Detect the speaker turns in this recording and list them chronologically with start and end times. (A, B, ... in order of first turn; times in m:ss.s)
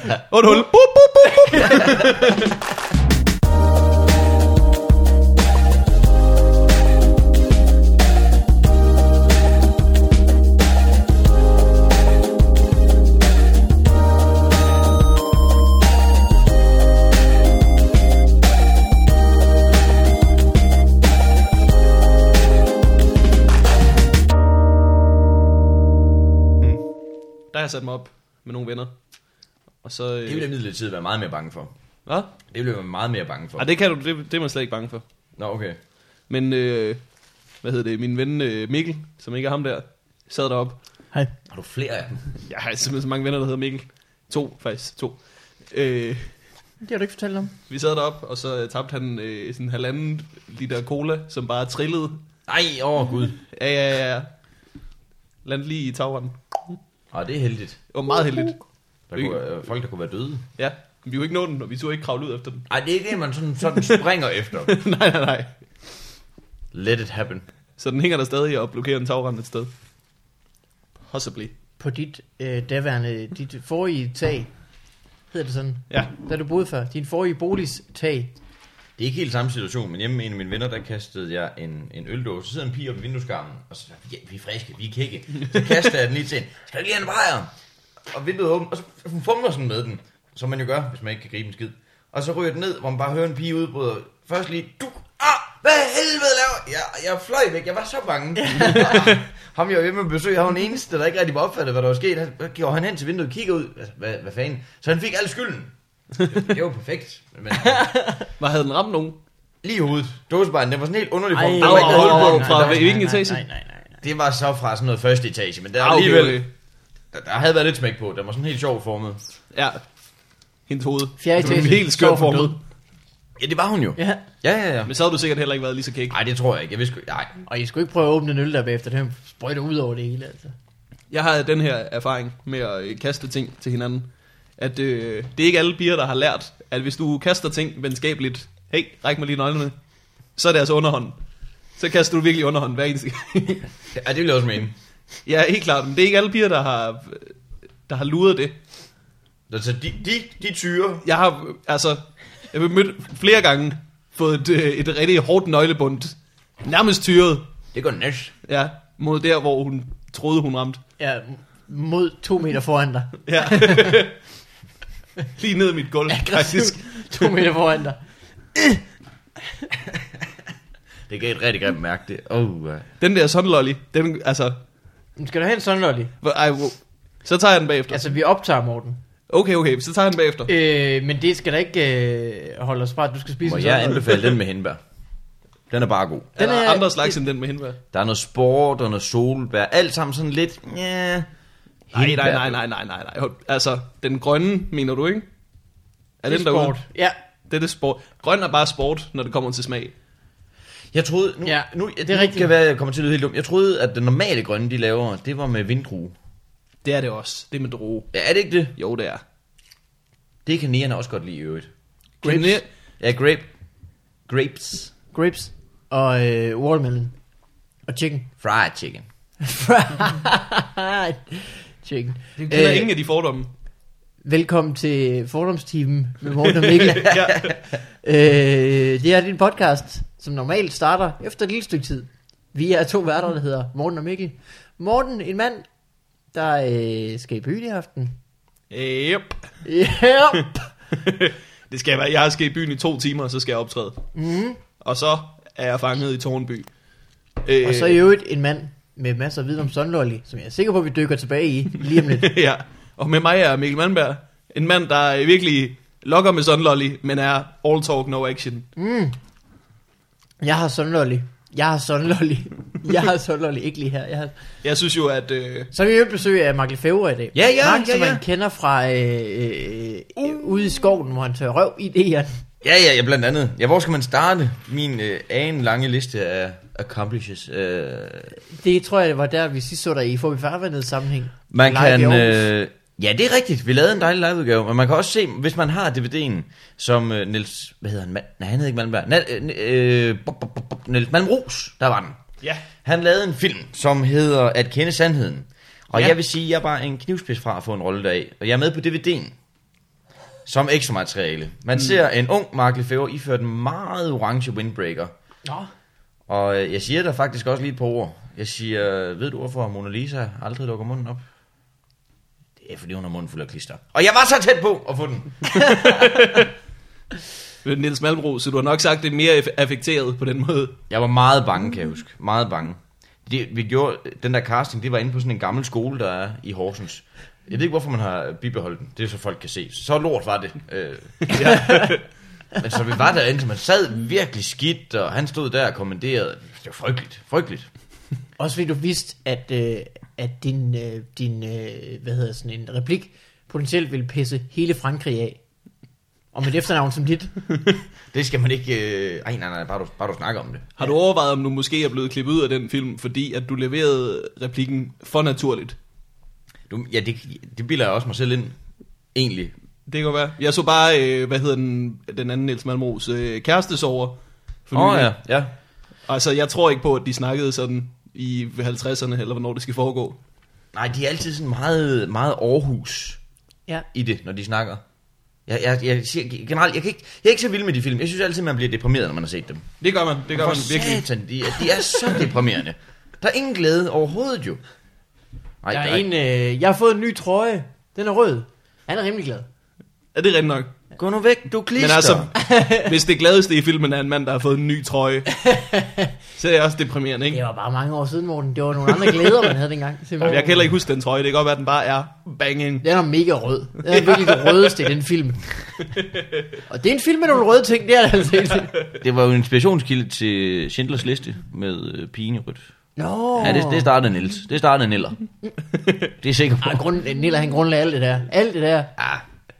0:00.3-0:02.5 A
0:01.5-0:02.0 B
0:27.5-0:28.9 A
0:29.8-0:30.5 A
0:30.2-0:31.7 C
0:32.1-0:32.3 A
0:32.5-0:33.7 C
0:33.6-0:35.0 A
0:35.4-0:35.8 C
0:36.3-0:37.0 A
0:37.6-0:40.8 A
0:41.5-0:42.3 C
0:42.4-0:46.3 A
0:46.8-0:47.5 B
0:47.7-0:52.2 A
0:52.5-0:53.4 C
0:53.5-0:54.3 A
0:55.4-0:56.8 A
0:57.1-0:57.8 C
0:57.9-0:58.6 A
0:59.1-1:00.4 C
1:00.6-1:02.7 A
1:02.7-1:04.8 C
1:04.6-1:05.6 A
1:06.7-1:07.4 C
1:07.8-1:09.7 A
1:11.1-1:11.5 A
1:11.8-1:14.5 B
1:15.3-1:18.3 B
1:19.0-1:27.5 C
1:28.1-1:45.7 C
1:46.3-1:47.9 C
1:47.5-1:48.2 B
1:48.4-1:49.2 A
1:49.6-1:53.1 C
1:51.3-1:54.0 B
1:51.6-1:53.4 A
1:54.0-1:56.4 C
1:55.8-1:56.5 A
1:57.1-1:59.3 C
1:59.5-1:59.8 A
2:00.7-2:02.6 A
2:01.2-2:02.6 B
2:03.4-2:04.9 C
2:04.0-2:04.2 B
2:04.9-2:06.2 A
2:06.1-2:07.3 C
2:07.5-2:10.5 B
2:11.1-2:19.8 A
2:20.4-2:21.2 A
2:21.8-2:23.7 A
2:23.9-2:24.8 C
2:25.2-2:27.4 A
2:27.9-2:28.6 A
2:29.5-2:31.0 C
2:31.0-2:37.5 A
2:37.7-2:38.3 C
2:38.5-2:40.8 A
2:41.0-2:44.0 B
2:43.3-2:44.2 A
2:45.4-2:46.8 A
2:46.1-2:48.0 B
2:51.1-2:52.9 C
2:53.0-2:54.6 A
2:55.2-2:56.1 B
2:56.2-2:58.1 A
2:57.9-2:59.0 B
2:59.3-3:00.5 A
3:00.5-3:04.3 B
3:03.4-3:04.8 C
3:05.7-3:06.3 C
3:06.4-3:07.8 A
3:06.4-3:07.2 B
3:07.9-3:11.3 C
3:11.9-3:12.6 C
3:11.9-3:15.3 A
3:16.2-3:16.8 A
3:16.3-3:17.2 B
3:17.5-3:19.9 A
3:20.9-3:26.2 C
3:21.4-3:22.5 B
3:26.8-3:28.1 A
3:28.1-3:28.7 C
3:28.8-3:29.2 A
3:30.5-3:31.7 C
3:32.2-3:32.6 A
3:32.2-3:32.6 B
3:33.0-3:33.5 C
3:34.3-3:35.0 C
3:35.1-3:37.1 B
3:37.9-3:38.3 B
3:38.4-3:39.1 C
3:39.4-3:42.9 B
3:42.4-3:43.5 A
3:44.2-3:47.2 B
3:46.5-3:47.6 A
3:47.1-3:47.5 C
3:48.0-3:55.7 B
3:56.3-3:58.2 B
3:58.7-3:59.5 A
3:59.6-4:00.7 B
4:00.9-4:04.0 A
4:04.2-4:04.6 B
4:04.8-4:06.7 A
4:07.4-4:08.0 A
4:07.6-4:12.3 B
4:12.1-4:18.7 A
4:18.8-4:19.2 B
4:20.4-4:24.3 B
4:24.6-4:25.7 A
4:25.7-4:32.4 B
4:27.3-4:28.2 C
4:32.6-4:38.4 C
4:38.5-4:42.5 B
4:41.5-4:52.2 C
4:52.8-4:59.4 C
5:00.5-5:05.1 C
5:06.3-5:11.2 C
5:12.6-5:16.2 C
5:15.6-5:16.5 A
5:17.6-5:20.8 A
5:20.9-5:31.7 C
5:31.3-5:32.0 A
5:31.4-5:31.9 B
5:32.6-5:37.7 C
5:38.4-5:45.4 B
5:46.3-5:47.4 B
5:48.1-5:50.7 C
5:50.8-5:55.8 A
5:56.7-5:58.6 C
5:59.2-5:59.5 C
5:59.9-6:05.1 A
6:04.7-6:05.5 C
6:06.1-6:10.2 A
6:10.7-6:13.2 C
6:13.9-6:14.8 C
6:15.5-6:19.7 C
6:19.8-6:21.0 A
6:20.3-6:24.6 C
6:25.6-6:26.1 C
6:25.7-6:29.5 B
6:30.2-6:30.8 A
6:31.0-6:32.3 C
6:31.8-6:35.5 A
6:32.4-6:32.9 B
6:35.5-6:36.1 B
6:36.4-6:37.4 A
6:37.3-6:40.7 B
6:39.0-6:39.5 A
6:40.2-6:42.9 A
6:42.8-6:45.4 B
6:43.8-6:44.8 A
6:46.0-6:46.4 A
6:46.7-6:48.7 B
6:48.9-6:52.6 C
6:53.0-6:53.9 B
6:53.4-6:55.2 C
6:56.2-6:56.8 C
6:56.6-6:59.0 B
6:59.0-6:59.2 C